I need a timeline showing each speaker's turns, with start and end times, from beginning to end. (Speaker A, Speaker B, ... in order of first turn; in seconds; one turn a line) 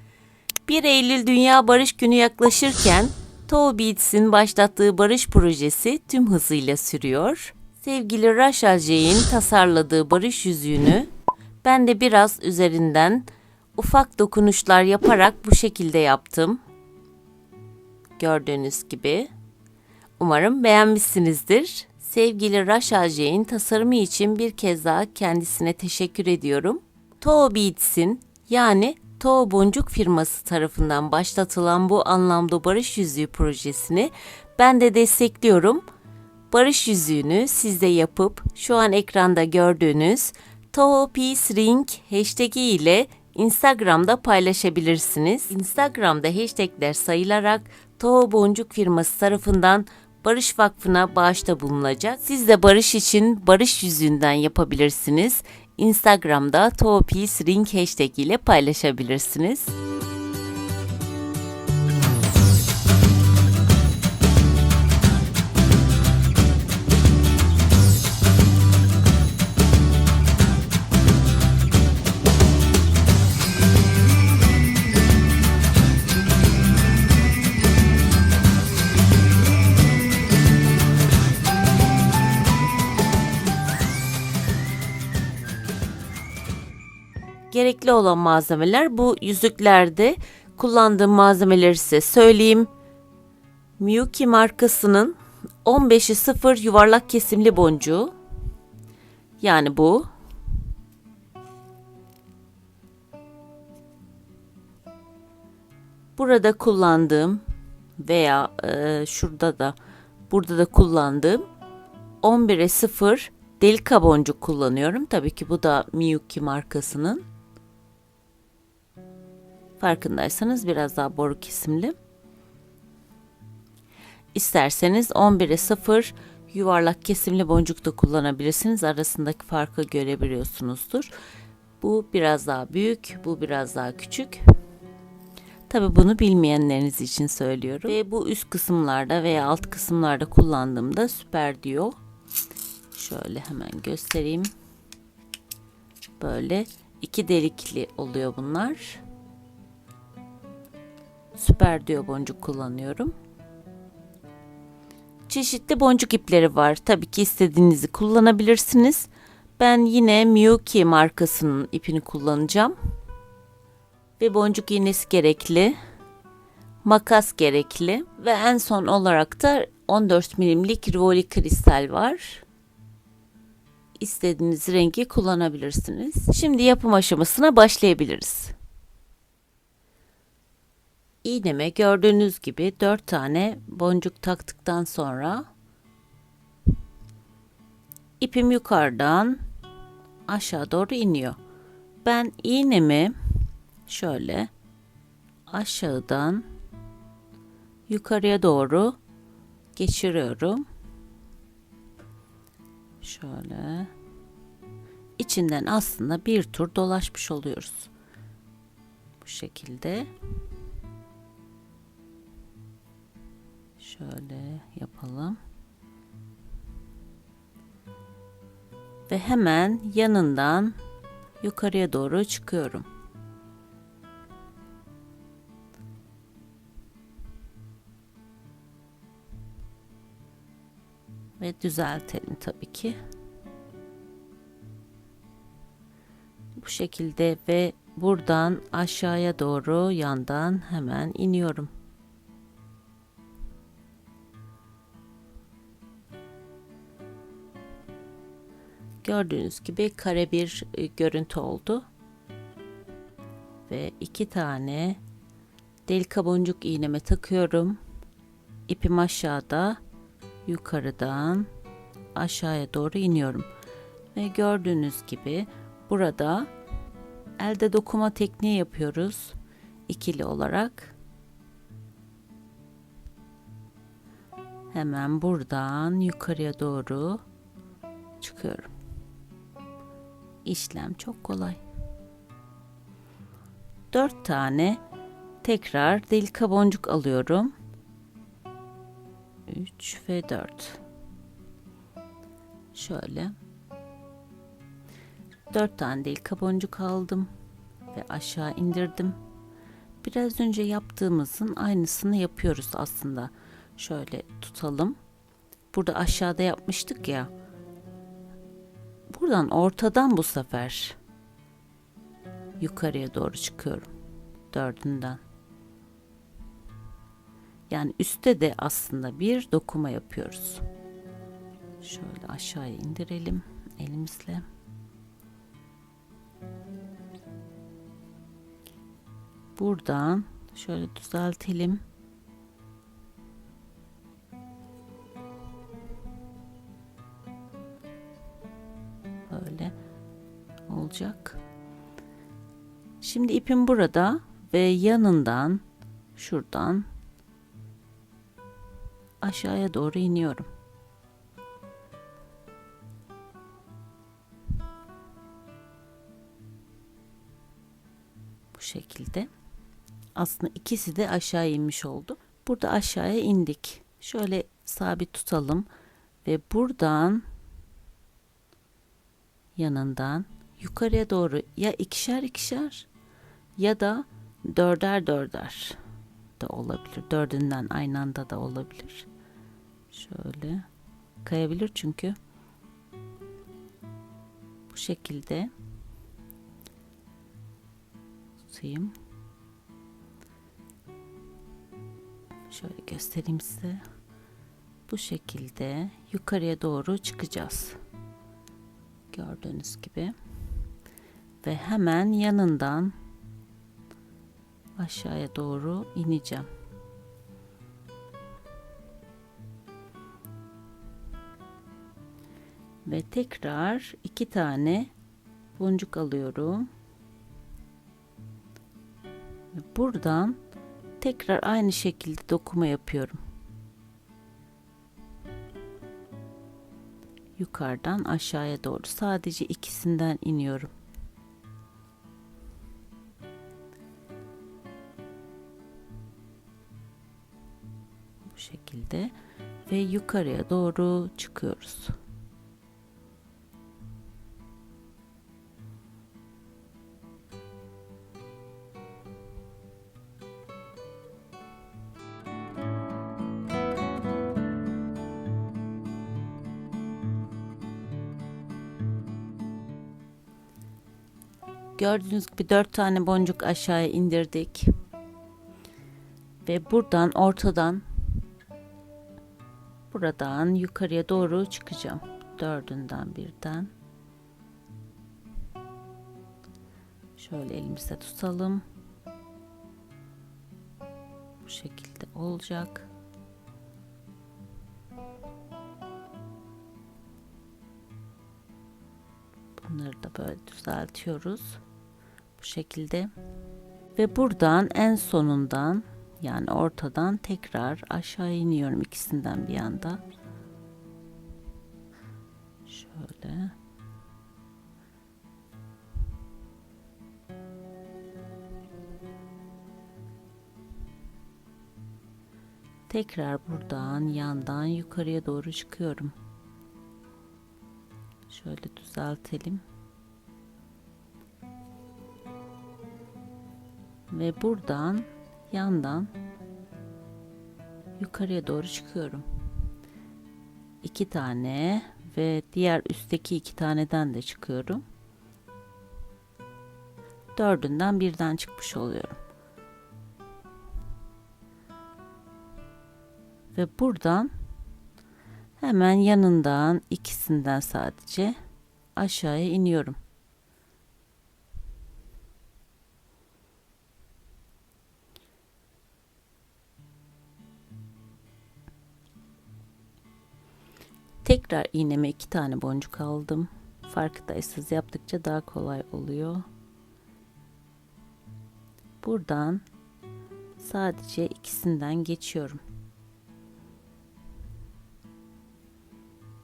Speaker A: 0.7-11.1
Speaker A: 11.6-16.6
Speaker A: 18.2-19.3
Speaker A: 20.2-35.9
Speaker A: 36.5-59.7
Speaker A: 87.5-92.7
Speaker A: 93.8-98.1
Speaker A: 99.4-100.1
Speaker A: 106.2-107.4
Speaker A: 108.0-109.8
Speaker A: 110.3-111.4
Speaker A: 112.2-117.2
Speaker A: 119.8-122.0
Speaker A: 124.3-131.1
Speaker A: 131.8-134.4
Speaker A: 135.7-142.0
Speaker A: 142.9-144.5
Speaker A: 146.2-149.0
Speaker A: 151.4-153.1
Speaker A: 155.3-162.8
Speaker A: 164.2-165.8
Speaker A: 166.8-172.4
Speaker A: 174.0-178.5
Speaker A: 181.2-185.4
Speaker A: 188.2-189.4
Speaker A: 190.3-191.4
Speaker A: 192.0-193.2
Speaker A: 193.9-194.5
Speaker A: 195.5-196.5
Speaker A: 197.9-199.0
Speaker A: 199.8-200.6
Speaker A: 203.0-203.9
Speaker A: 205.2-207.9
Speaker A: 209.2-210.1
Speaker A: 213.8-215.4
Speaker A: 219.1-220.8
Speaker A: 221.4-222.9
Speaker A: 231.4-233.0
Speaker A: 236.6-241.7
Speaker A: 249.0-251.8
Speaker A: 253.7-255.0
Speaker A: 255.9-257.8
Speaker A: 258.7-259.8
Speaker A: 260.5-261.5
Speaker A: 262.1-263.5
Speaker A: 264.1-266.5
Speaker A: 267.4-269.4
Speaker A: 269.9-271.0
Speaker A: 274.7-277.2
Speaker A: 278.2-278.7
Speaker A: 280.4-281.6
Speaker A: 283.9-284.8
Speaker A: 285.4-287.5
Speaker A: 289.5-290.8
Speaker A: 292.7-293.3
Speaker A: 295.5-297.3
Speaker A: 297.9-299.2
Speaker A: 300.0-305.0
Speaker A: 305.7-307.3
Speaker A: 309.1-311.0
Speaker A: 312.6-313.9
Speaker A: 314.5-315.2
Speaker A: 317.7-320.6
Speaker A: 321.8-324.4
Speaker A: 329.6-331.8
Speaker A: 339.3-339.7
Speaker A: 340.7-341.4
Speaker A: 343.0-345.6
Speaker A: 346.2-346.9
Speaker A: 349.2-350.5
Speaker A: 358.5-359.3
Speaker A: 360.2-365.7
Speaker A: 366.2-367.2
Speaker A: 369.6-372.9
Speaker A: 373.6-375.8
Speaker A: 376.4-379.1
Speaker A: 379.9-380.7
Speaker A: 381.2-382.1
Speaker A: 384.7-385.5
Speaker A: 388.5-388.9
Speaker A: 392.5-393.8
Speaker A: 394.9-397.8
Speaker A: 399.1-400.1
Speaker A: 401.4-402.9
Speaker A: 404.8-406.5
Speaker A: 412.9-414.9
Speaker A: 415.6-416.7
Speaker A: 419.6-420.4
Speaker A: 421.0-423.2
Speaker A: 427.4-430.7
Speaker A: 438.3-439.1
Speaker A: 439.7-442.0
Speaker A: 461.8-464.7
Speaker A: 466.4-467.8
Speaker A: 469.9-473.7
Speaker A: 477.2-478.6
Speaker A: 481.4-482.9
Speaker A: 489.6-491.6
Speaker A: 492.4-493.1
Speaker A: 494.0-500.0
Speaker A: 502.7-503.5
Speaker A: 512.9-516.1
Speaker A: 518.3-519.6
Speaker A: 524.1-526.1
Speaker A: 528.0-529.2
Speaker A: 530.8-534.8
Speaker A: 537.4-539.2
Speaker A: 543.5-544.3
Speaker A: 545.6-548.4
Speaker A: 549.0-550.0
Speaker A: 561.2-566.4
Speaker A: 569.0-569.6
Speaker A: 570.6-572.6